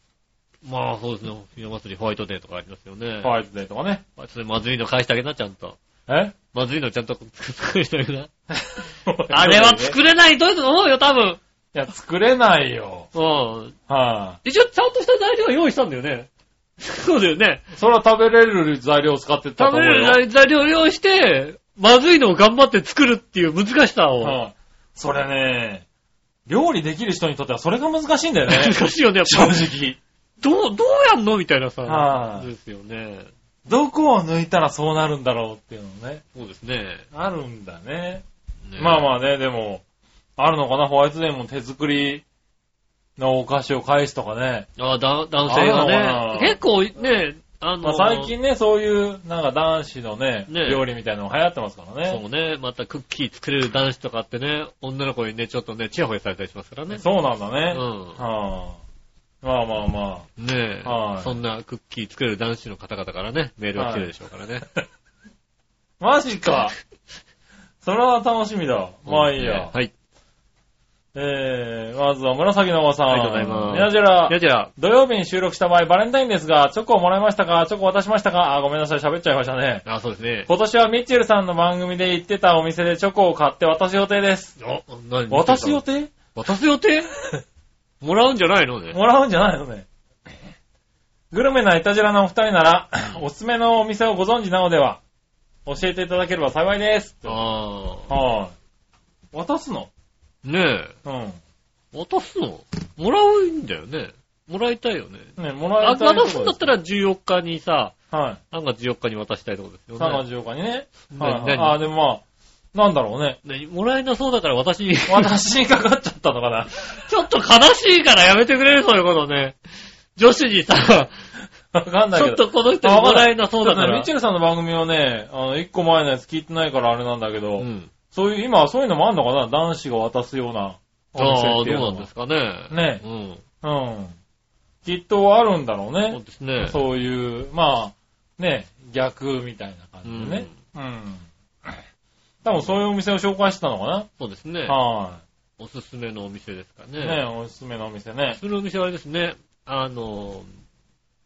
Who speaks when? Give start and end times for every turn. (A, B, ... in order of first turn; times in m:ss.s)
0:00.6-0:03.3 A
0:03.2-0:04.0 B
0:04.2-0:05.8 A
0:06.1-0:06.4 B
0:06.5-0:08.3 A
0:08.5-0:10.0 B
0:09.3-0:11.4 A
0:11.7-0:13.1 B
0:13.1-0:13.8 A
0:13.9-0:14.4 B
0:14.4-0:16.3 A
0:16.8-0:17.6 A
0:17.7-0:20.2 B
0:19.6-0:24.4 A
0:24.2-0:25.8 B
0:26.5-0:30.0 B
0:28.5-0:29.6 A
0:30.4-0:33.3 A
0:31.9-0:32.5 B
0:33.7-0:36.2 B
0:36.3-0:37.1 A
0:37.1-0:38.2 B
0:38.7-0:39.1 A
0:38.8-0:39.8 B
0:40.4-0:42.2 B
0:43.2-0:44.7 B
0:44.8-0:48.3 A
0:45.5-0:46.6 B
0:47.8-0:52.2 B
0:50.5-0:50.8 A
0:52.1-0:57.0 A
0:56.9-0:58.8 B
0:57.7-0:58.2 A
0:59.4-1:00.3 B
1:00.4-1:04.7 A
1:00.8-1:01.4 B
1:03.8-1:04.1 B
1:06.0-1:06.7 B
1:07.8-1:09.7 B
1:09.1-1:09.9 A
1:11.2-1:19.8 B
1:13.1-1:14.7 A
1:19.9-1:20.5 A
1:20.5-1:24.6 B
1:24.6-1:25.8 A
1:25.3-1:26.1 B
1:26.3-1:27.1 A
1:28.0-1:29.0 A
1:28.9-1:29.9 B
1:31.3-1:35.0 B
1:35.7-1:37.4 B
1:37.3-1:38.1 A
1:38.1-1:38.5 B
1:39.3-1:39.9 B
1:40.4-1:41.0 A
1:41.0-1:41.4 B
1:41.9-1:47.9 A
1:45.4-1:46.7 B
1:48.1-1:48.4 B
1:48.5-1:50.2 A
1:50.0-1:52.2 B
1:51.1-1:51.8 A
1:52.7-1:53.4 B
1:53.4-1:55.4 A
1:55.1-1:57.0 B
1:56.9-1:59.6 A
2:00.2-2:01.2 A
2:01.7-2:12.1 B
2:02.1-2:04.1 A
2:07.6-2:07.9 A
2:11.2-2:13.4 A
2:12.7-2:13.0 B
2:13.6-2:14.2 B
2:14.8-2:21.8 B
2:16.1-2:16.8 A
2:20.0-2:20.6 A
2:22.4-2:24.1 B
2:24.2-2:24.8 A
2:24.7-2:25.2 B
2:25.6-2:27.2 A
2:27.0-2:28.4 B
2:28.3-2:30.5 A